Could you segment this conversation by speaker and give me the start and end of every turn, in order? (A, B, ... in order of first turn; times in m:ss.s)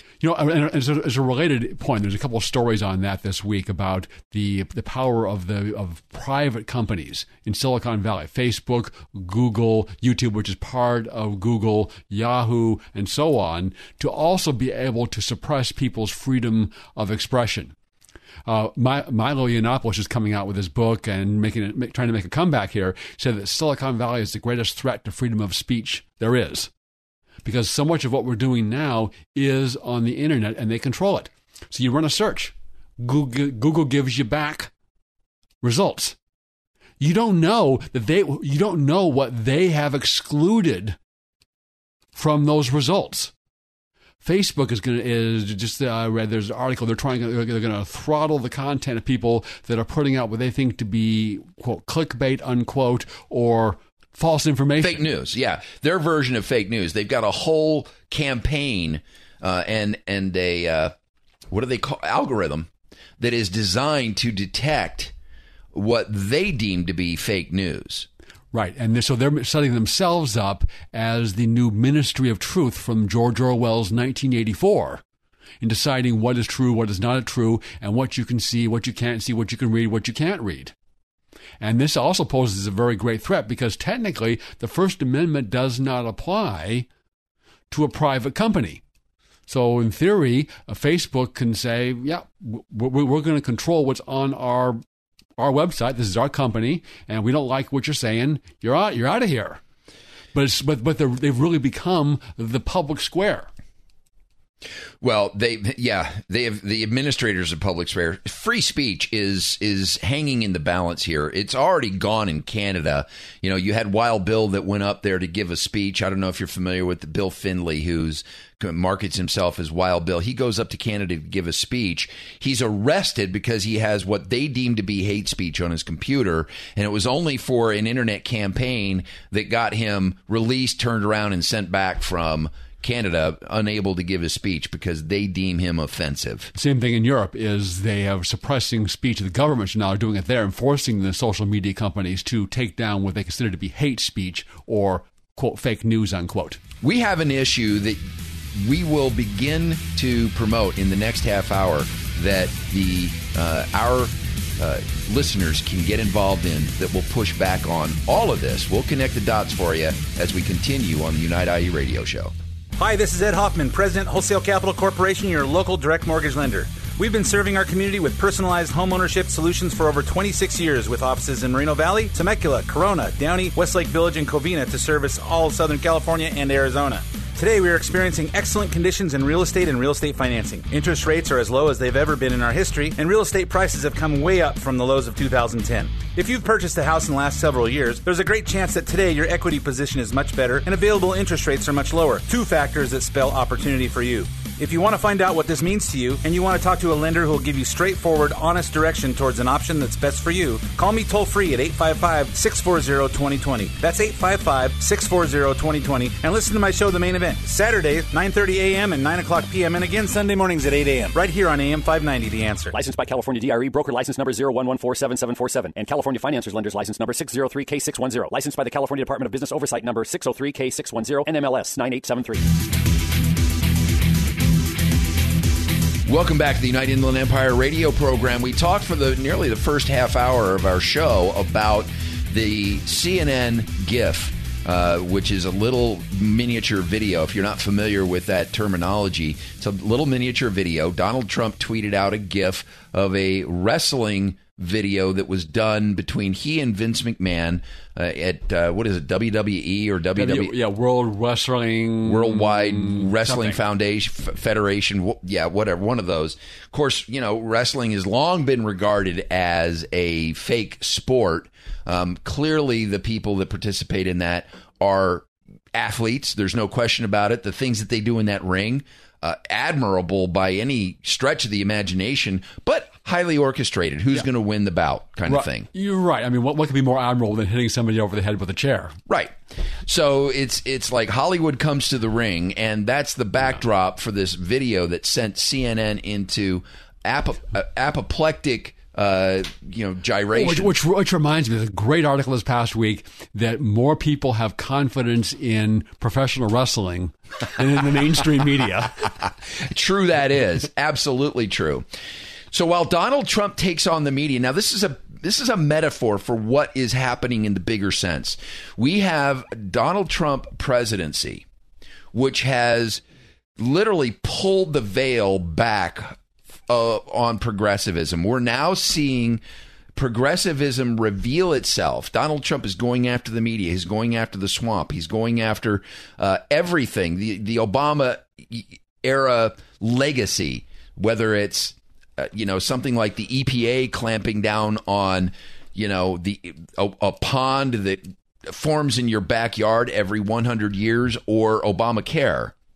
0:00.2-0:17.7 A
0:18.5-0:26.7 A
0:27.4-0:34.7 A
0:35.6-0:36.2 A
0:37.0-0:41.0 A
0:42.1-0:43.3 A
0:44.2-0:55.0 A
0:54.8-1:00.9 B
1:01.5-1:05.1 B
1:05.7-1:08.1 B
1:08.5-1:15.0 A
1:15.6-1:20.7 A
1:21.6-1:26.9 A
1:27.7-1:28.8 A
1:29.5-1:34.8 A
1:35.4-1:39.6 A
1:40.3-1:43.5 A
1:45.0-2:16.5 B
2:16.6-2:26.6 A
2:26.8-2:28.0 B
2:28.5-2:42.3 B
2:42.8-3:32.7 C
3:32.7-3:42.4 D
3:46.0-4:10.5 B
4:10.2-4:13.6 A
4:12.0-4:35.7 B
4:35.3-4:38.9 A
4:39.1-4:50.7 B
4:50.3-4:59.1 A
4:59.6-5:01.8 B
5:02.5-5:11.4 B
5:12.1-5:13.0 B
5:13.6-5:19.4 B
5:19.9-5:42.5 B